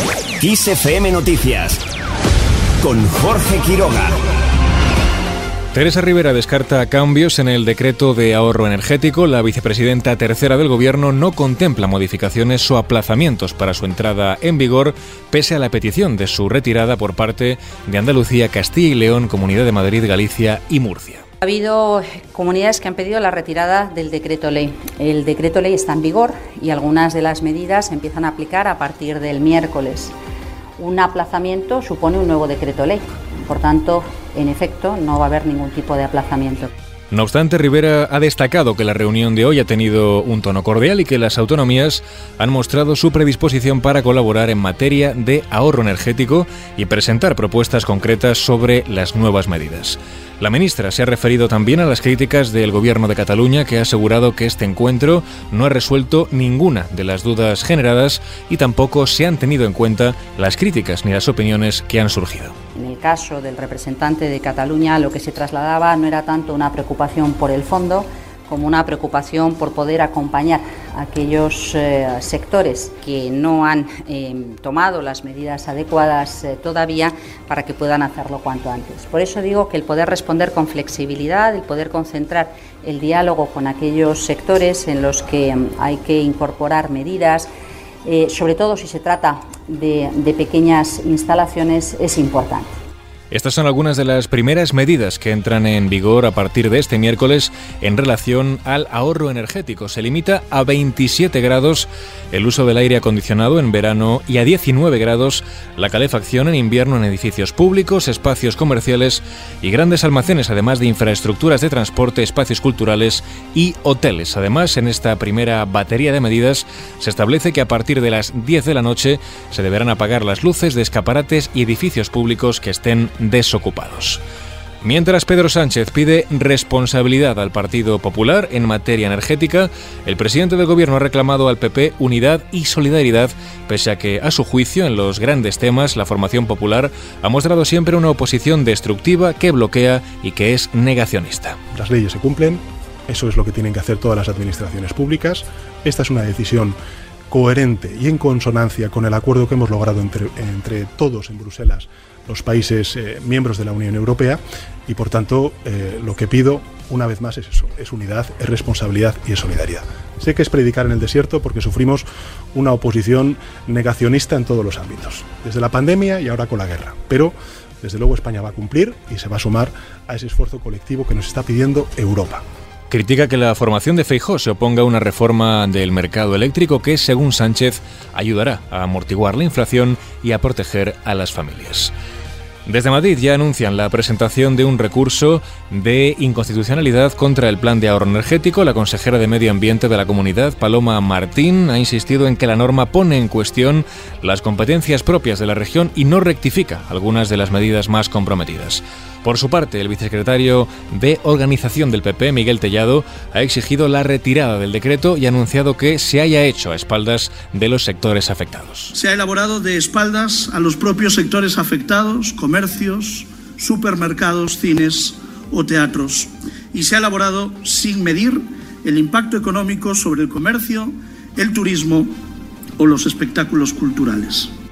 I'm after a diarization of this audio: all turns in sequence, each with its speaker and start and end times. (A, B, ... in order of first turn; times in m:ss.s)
0:00.4-0:01.8 A
0:02.8-0:04.2 A
0:05.7-0:21.2 B
0:21.4-0:30.2 C
0:30.8-0:36.7 C
0:37.1-1:02.5 B
1:02.8-1:27.5 C
1:28.1-1:32.7 C
1:33.3-2:04.2 B
2:04.8-2:21.6 B
2:21.7-2:26.8 D
2:27.3-2:52.4 D
2:52.9-3:01.9 B
3:02.7-3:28.9 B
3:28.9-3:42.1 E
3:42.8-3:44.5 E